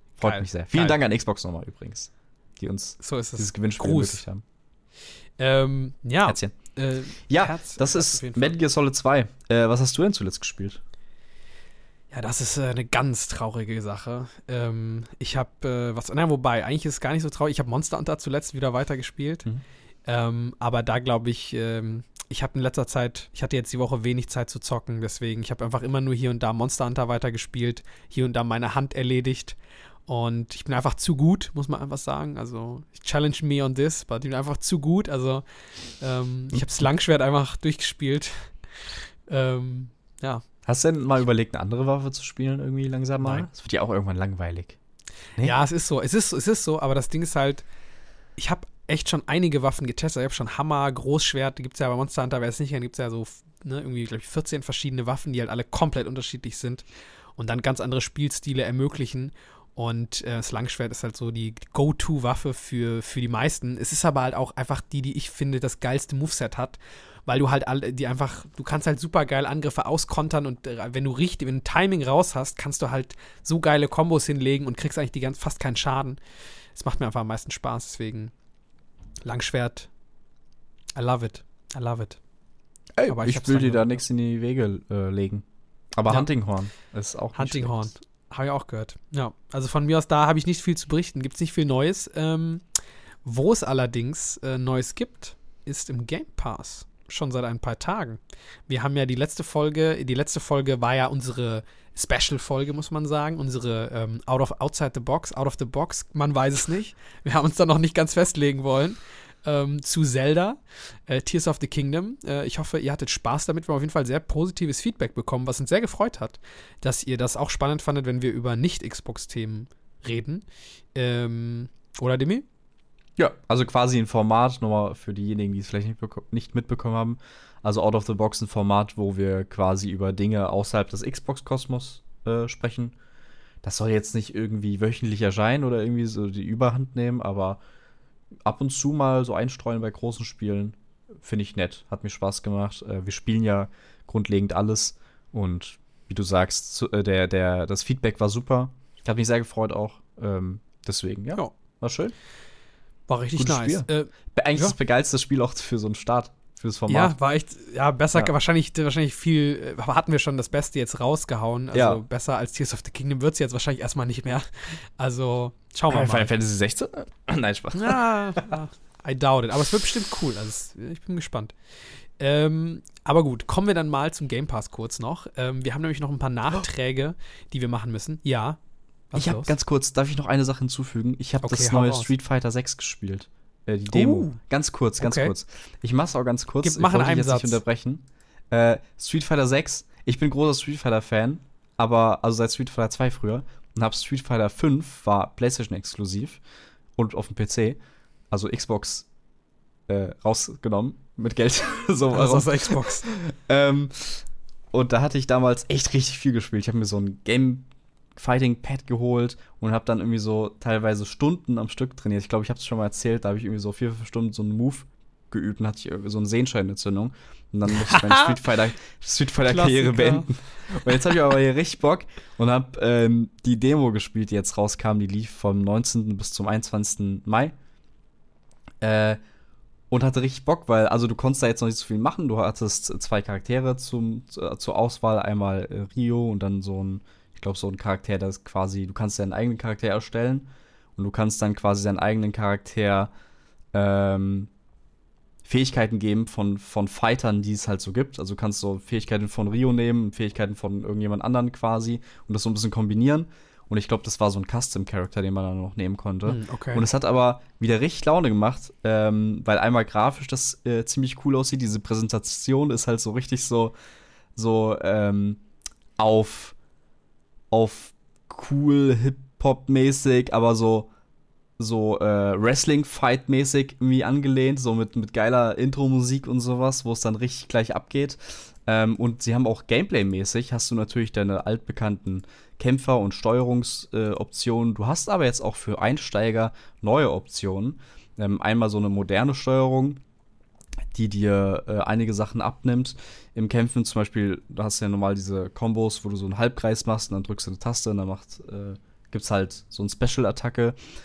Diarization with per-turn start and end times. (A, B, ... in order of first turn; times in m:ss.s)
0:00.2-0:04.4 A
0:00.2-0:01.0 B
0:03.0-0:04.2 B
0:05.4-0:08.6 B
0:06.2-0:06.5 A
0:07.3-0:10.8 A
0:12.1-0:19.5 B
0:20.0-0:35.4 B
0:36.0-0:40.4 B
0:40.6-0:44.8 A
0:43.2-0:43.5 B
0:45.4-0:47.6 B
0:48.4-0:56.8 B
0:57.4-1:16.2 B
1:16.7-1:18.3 B
1:19.2-1:19.9 B
1:21.0-1:22.2 B
1:23.0-1:25.4 A
1:23.1-1:24.0 B
1:26.0-1:27.9 A
1:27.4-1:32.6 B
1:33.2-2:02.4 B
2:03.2-2:12.9 A
2:13.6-2:17.6 A
2:18.4-2:32.1 A
2:33.1-2:34.7 B
2:33.3-2:37.1 A
2:36.9-2:46.3 B
2:41.7-2:42.0 A
2:45.9-2:48.6 A
2:47.7-2:51.5 B
2:52.2-2:58.6 B
2:59.1-2:59.5 B
2:59.1-3:16.4 A
3:01.4-3:02.1 B
3:03.9-3:04.4 B
3:05.0-3:05.3 B
3:06.6-3:07.6 B
3:17.0-3:17.8 A
3:18.3-3:19.1 A
3:19.9-3:47.5 A
3:22.1-3:23.1 B
3:37.7-3:38.4 B
3:39.4-3:41.1 B
3:48.8-3:49.2 A
3:49.9-4:03.1 A
4:03.7-4:04.5 A
4:05.4-4:23.7 A
4:16.2-4:16.8 B
4:24.3-4:25.4 A
4:26.0-4:26.5 A
4:27.5-4:30.9 A
4:31.6-4:50.0 A
4:50.9-5:00.8 A